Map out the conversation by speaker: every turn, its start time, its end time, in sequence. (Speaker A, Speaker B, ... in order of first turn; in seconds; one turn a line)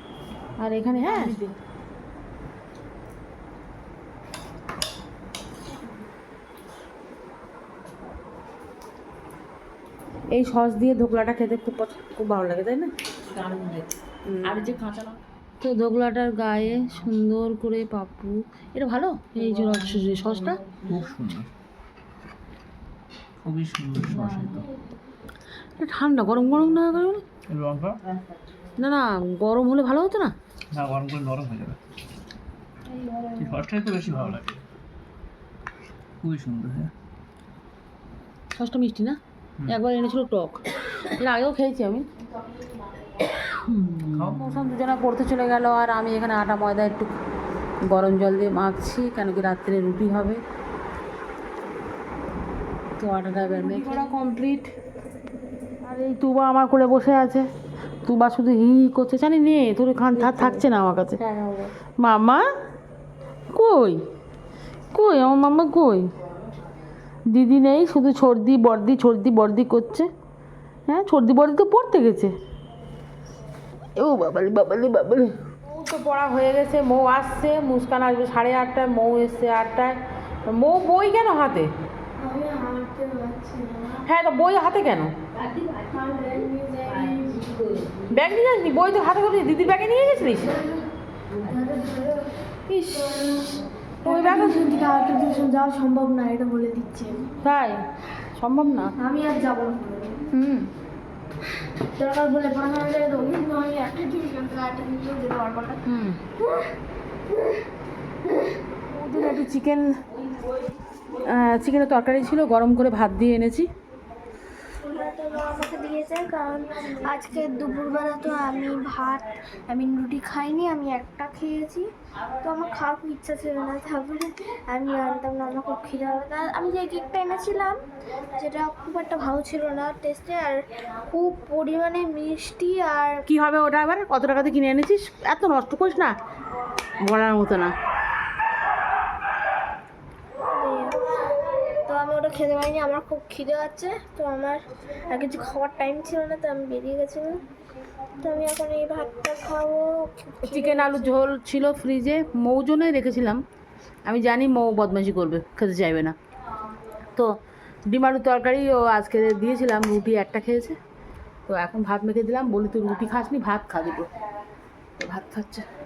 Speaker A: 0.6-1.4
Speaker A: 10.3-12.9
Speaker B: 13.4-13.8
Speaker A: 14.3-20.6
Speaker B: 20.8-21.5
Speaker B: 23.4-24.7
Speaker A: 25.8-27.2
Speaker B: 27.5-28.0
Speaker A: 28.8-30.3
Speaker B: 30.7-31.8
Speaker C: 32.9-33.5
Speaker B: 33.4-34.6
Speaker B: 36.2-36.9
Speaker A: 38.5-42.1
Speaker B: 43.8-44.5
Speaker A: 43.8-47.1
Speaker A: 47.9-50.4
Speaker A: 53.0-54.7
Speaker A: 55.8-57.5
Speaker A: 58.0-61.2
Speaker A: 62.0-62.5
Speaker A: 63.5-64.0
Speaker A: 64.9-66.1
Speaker A: 67.3-70.1
Speaker A: 70.9-72.3
Speaker A: 74.0-80.0
Speaker A: 80.5-81.7
Speaker C: 82.2-84.0
Speaker A: 84.0-85.1
Speaker C: 85.7-87.5
Speaker A: 88.1-90.5
Speaker C: 91.3-97.3
Speaker A: 94.0-94.7
Speaker A: 97.4-97.8
Speaker A: 98.4-98.9
Speaker C: 99.0-100.3
Speaker A: 100.3-100.7
Speaker C: 101.9-105.8
Speaker A: 105.9-106.2
Speaker A: 108.9-109.9
Speaker A: 111.2-113.7
Speaker C: 114.8-121.9
Speaker C: 122.4-127.8
Speaker C: 128.4-133.2
Speaker A: 133.3-136.2
Speaker A: 137.0-137.7
Speaker C: 140.5-141.0
Speaker C: 141.9-147.4
Speaker C: 148.2-151.1
Speaker A: 150.5-153.4
Speaker A: 154.1-156.2
Speaker A: 157.9-160.8
Speaker A: 161.5-164.1
Speaker A: 165.0-165.7